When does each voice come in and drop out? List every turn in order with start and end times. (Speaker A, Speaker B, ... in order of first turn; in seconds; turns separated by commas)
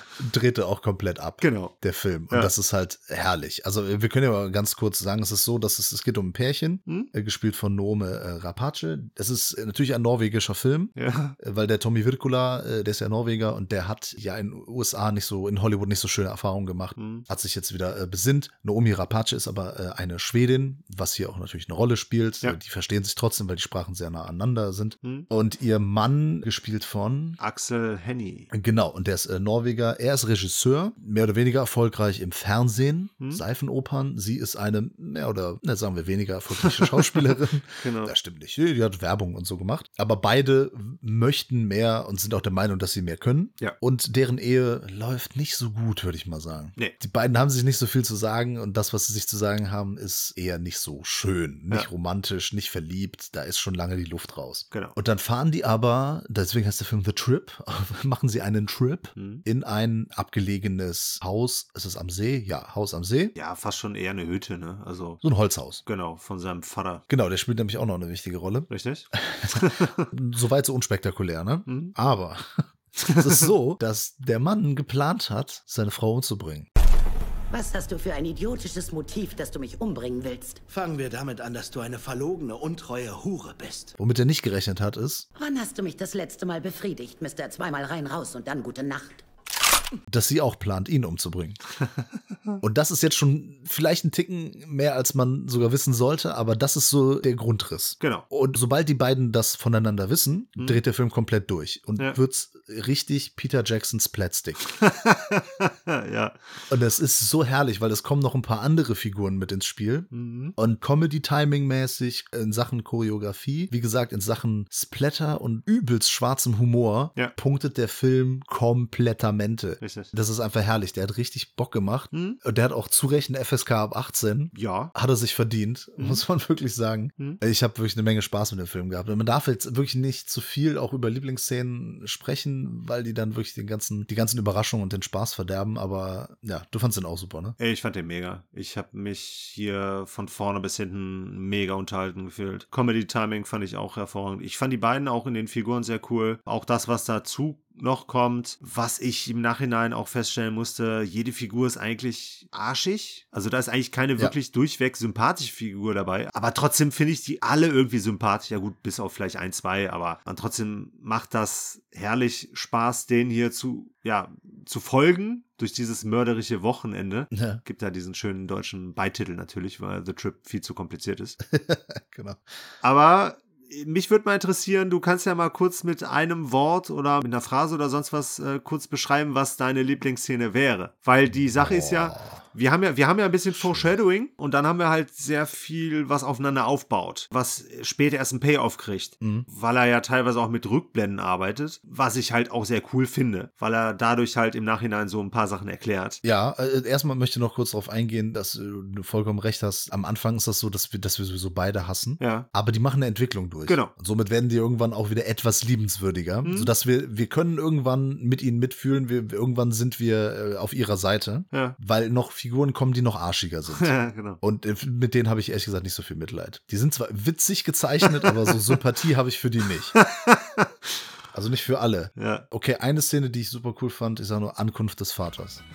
Speaker A: 0.2-27.4, Speaker B: 1.4-1.7, Speaker B: 10.9-11.3, Speaker B: 17.0-17.2, Speaker B: 25.0-25.3, Speaker B: 27.4-28.5, Speaker A: 28.5-63.3, Speaker B: 36.6-37.2, Speaker B: 37.8-38.1, Speaker B: 59.1-59.4, Speaker B: 63.3-65.2, Speaker A: 65.2-65.8, Speaker B: 65.8-67.0, Speaker A: 67.1-76.7, Speaker B: 68.7-70.1, Speaker B: 71.7-71.9, Speaker B: 73.0-73.4, Speaker C: 77.5-80.6, Speaker D: 80.7-84.0, Speaker A: 84.0-85.3, Speaker C: 85.3-89.2, Speaker A: 90.1-91.6, Speaker A: 92.6-104.6, Speaker B: 98.0-98.2, Speaker B: 104.7-106.4, Speaker A: 106.7-137.6, Speaker B: 110.1-110.5, Speaker B: 119.8-120.1, Speaker B: 122.1-122.4, Speaker B: 124.5-124.9, Speaker B: 126.0-126.2, Speaker B: 137.6-171.4, Speaker A: 167.3-167.6, Speaker A: 171.5-172.4, Speaker B: 172.8-196.2, Speaker A: 181.5-182.4, Speaker A: 183.6-183.9, Speaker A: 189.2-189.5, Speaker A: 196.2-219.9, Speaker B: 202.2-202.5, Speaker B: 203.7-203.9, Speaker B: 206.4-206.7, Speaker B: 213.7-214.4, Speaker B: 218.2-218.5, Speaker B: 219.9-220.9, Speaker A: 221.3-225.6, Speaker B: 222.2-222.4